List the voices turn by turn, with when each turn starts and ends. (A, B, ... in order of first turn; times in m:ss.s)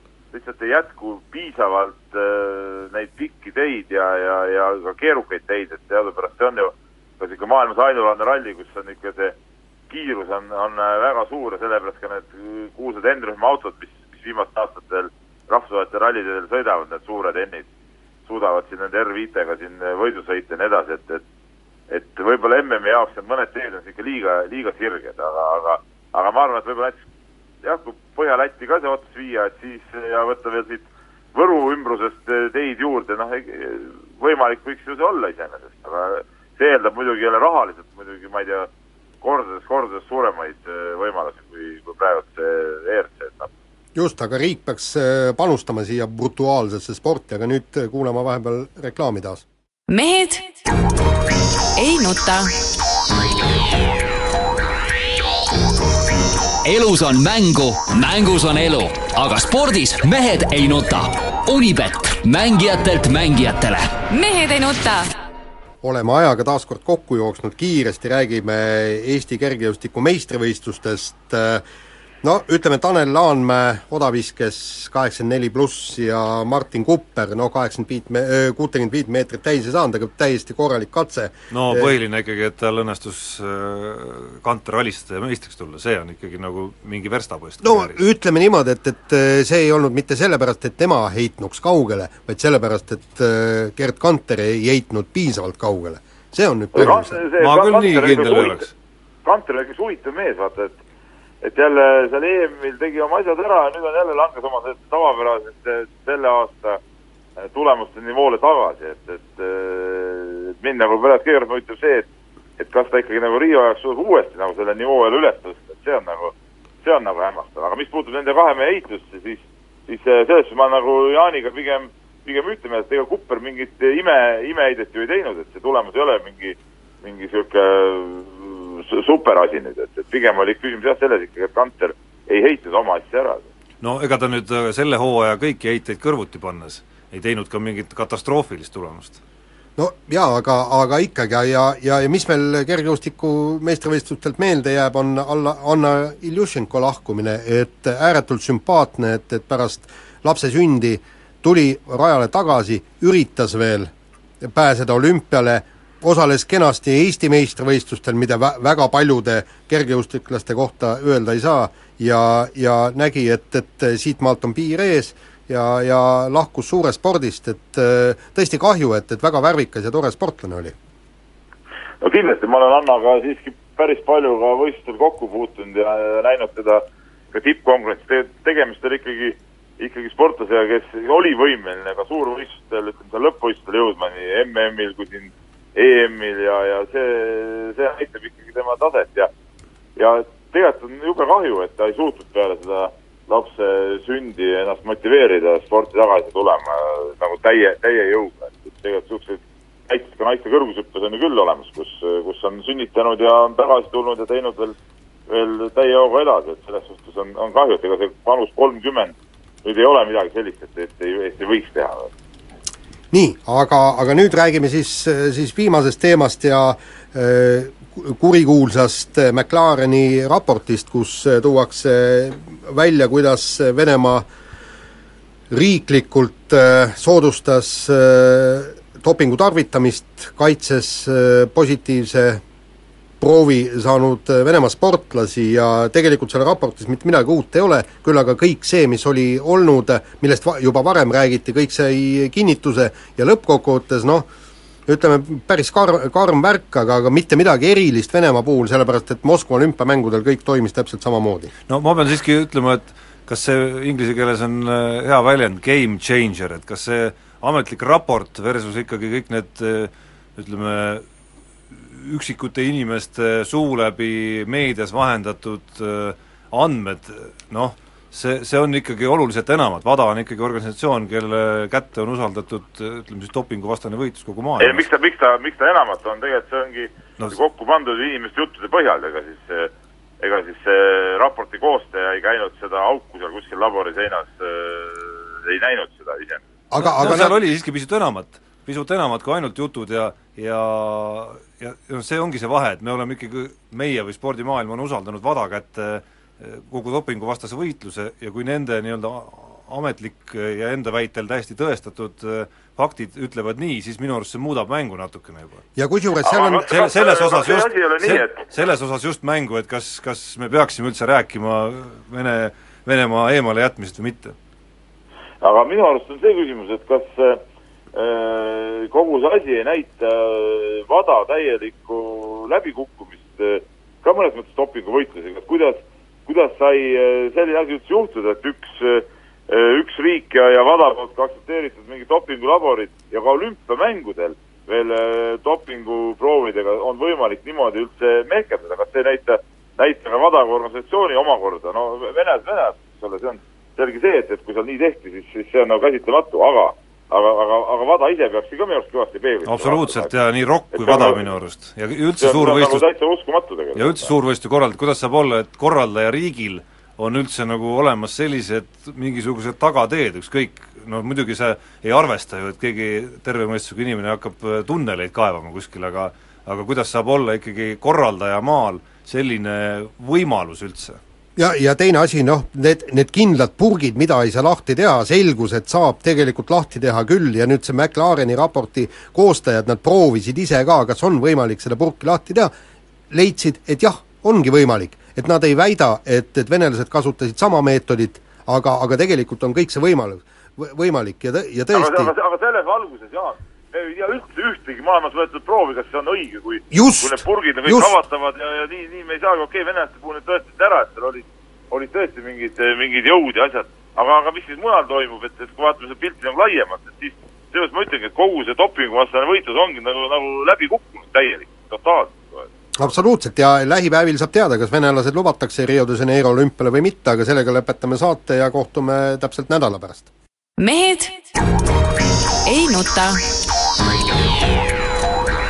0:00.3-0:09.4 A
0:09.9-0:17.7 A
0:18.2-0:21.2 A
0:21.9-0:27.0 A
0:27.6-0:38.7 A
0:39.2-0:43.5 A
0:43.9-0:49.4 B
0:49.9-0:50.6 C
0:51.8-0:52.5 C
0:56.6-1:03.9 D
1:04.1-1:05.1 C
1:05.8-1:11.6 B
1:12.2-1:21.9 B
1:21.5-1:28.0 E
1:27.6-1:37.2 B
1:36.7-1:38.7 A
1:37.4-1:38.7 E
1:39.2-1:40.8 A
1:41.4-1:46.8 A
1:47.4-1:52.1 A
1:52.6-2:13.5 A
2:13.8-2:19.2 E
2:19.8-2:50.7 B
2:52.0-3:09.3 A
3:10.0-3:24.8 A
3:25.3-3:32.1 A
3:33.1-3:44.2 B
3:45.5-3:52.4 B
3:53.2-4:04.3 B
4:04.9-4:11.5 B
4:11.7-4:21.0 E
4:21.7-4:34.8 E
4:34.6-4:46.4 A
4:46.7-4:47.4 B
4:46.8-5:05.6 E
5:05.8-5:06.7 B
5:06.2-5:08.4 A
5:06.7-5:14.3 E
5:15.4-5:17.4 A
5:17.9-5:50.1 A
5:49.4-5:52.8 E
5:50.7-5:51.2 A
5:52.2-5:54.1 A
5:53.8-6:11.0 E
6:11.4-6:22.5 B
6:23.1-6:32.1 B
6:31.7-6:52.5 A
6:36.7-6:37.9 B
6:52.8-7:00.1 B
7:00.6-7:01.3 C
7:02.4-7:03.2 C